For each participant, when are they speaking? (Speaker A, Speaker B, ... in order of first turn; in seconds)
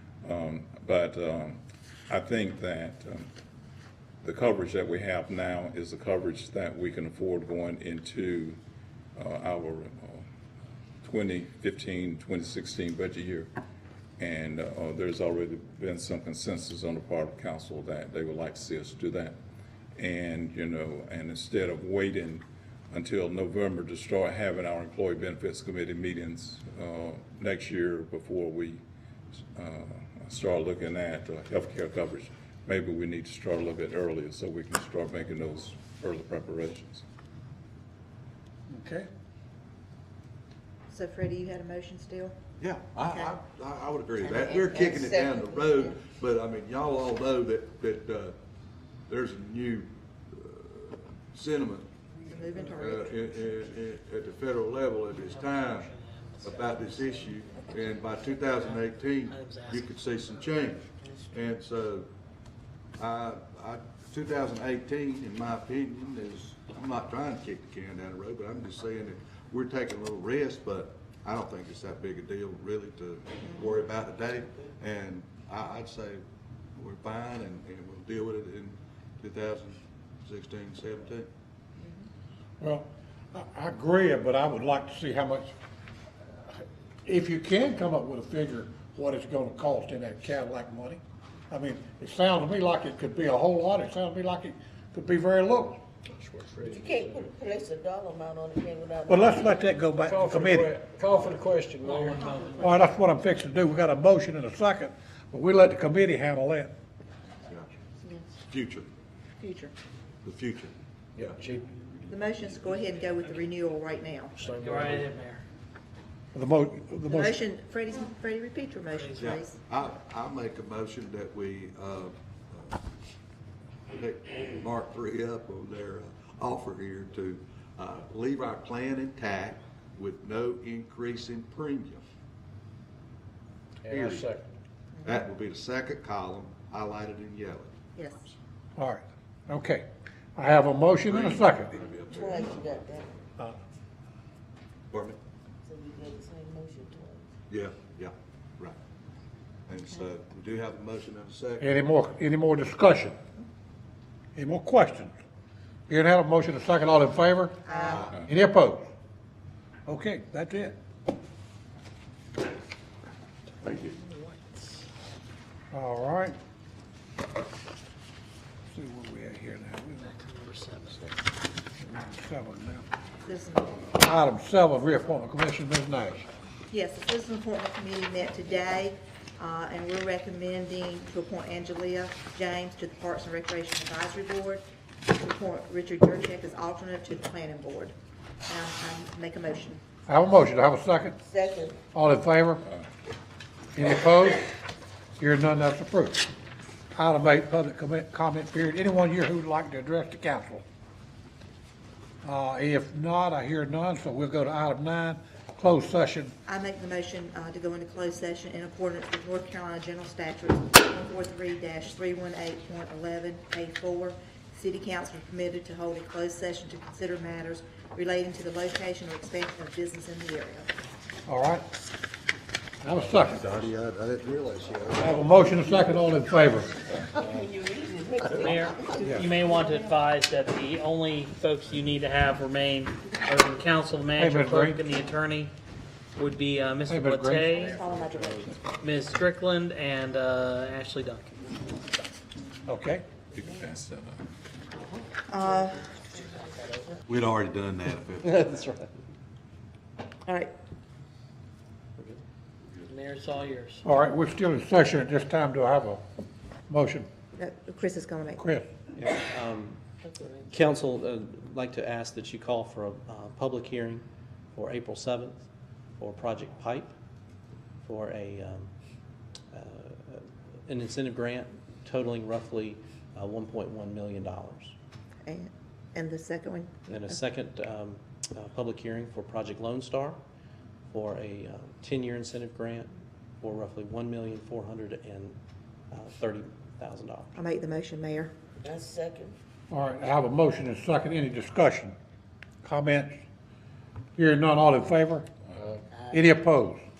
Speaker A: 0.2-3.3, 4.2-8.6, 9.2-10.2, 11.0-13.5, 14.2-19.3, 19.9-28.8, 29.5-37.0, 243.3-244.2
Speaker B: 38.7-39.1, 82.6-85.5, 87.0-91.0, 91.5-95.8, 99.1-100.8, 102.6-106.7, 116.3-117.4, 138.8-139.8, 140.3-141.8, 151.6-153.2, 154.3-155.1, 155.9-158.9, 159.8-160.8, 165.7-166.3, 168.7-170.2, 171.8-172.8, 174.0-176.2, 190.1-191.2, 191.9-192.6, 193.7-194.5, 195.2-196.2, 196.9-200.6, 202.2-206.3, 221.3-221.7, 222.8-223.5, 225.0-226.8, 234.2-234.8, 236.9-237.5, 242.7-243.0, 253.8-256.0, 256.7-257.1, 258.4-258.7, 289.7-291.9, 292.6-293.2, 294.2-295.3, 296.1-296.8
Speaker C: 40.9-42.4, 43.0-43.3, 52.2-53.3, 81.8-82.1, 101.9-102.7, 108.0-108.3, 109.4-109.7, 112.1-114.3, 117.0-119.6, 137.9-138.2, 157.6-158.1, 173.2-173.8, 176.7-187.9, 188.5-189.8, 206.4-220.7, 229.6-229.9, 237.5-238.6, 245.3-245.9, 250.2-250.5, 257.4-258.4, 275.2-277.1, 287.3-288.3
Speaker D: 42.6-48.3, 49.1-51.9, 52.6-55.9, 56.4-62.1, 63.0-76.2, 76.8-81.3, 108.5-108.9, 110.2-112.6, 119.2-122.8, 123.9-132.0, 133.9-134.3, 135.0-137.8, 141.0-142.6, 144.9-145.2, 147.5-148.8, 149.7-151.7, 222.9-225.6, 229.0-229.3, 247.1-248.5
Speaker E: 44.2-46.0, 61.0-61.5, 96.7-99.7, 142.1-143.1, 145.6-147.3, 191.2-191.8, 227.0-229.2, 246.4-246.9, 260.0-260.5, 288.6-289.4
Speaker F: 55.2-56.9, 58.5-59.9, 101.9-102.7, 114.5-115.4, 118.9-119.2, 170.1-171.0, 228.4-235.5, 236.2-237.8, 238.8-241.4, 252.9-253.8
Speaker G: 96.1-97.3, 100.0-102.3, 111.2-111.7, 114.3-115.1, 133.8-134.5
Speaker H: 248.2-248.9, 258.9-259.8, 260.5-265.4, 266.0-266.9, 267.8-268.7, 269.5-274.7, 276.9-280.2, 280.9-285.4, 285.9-287.3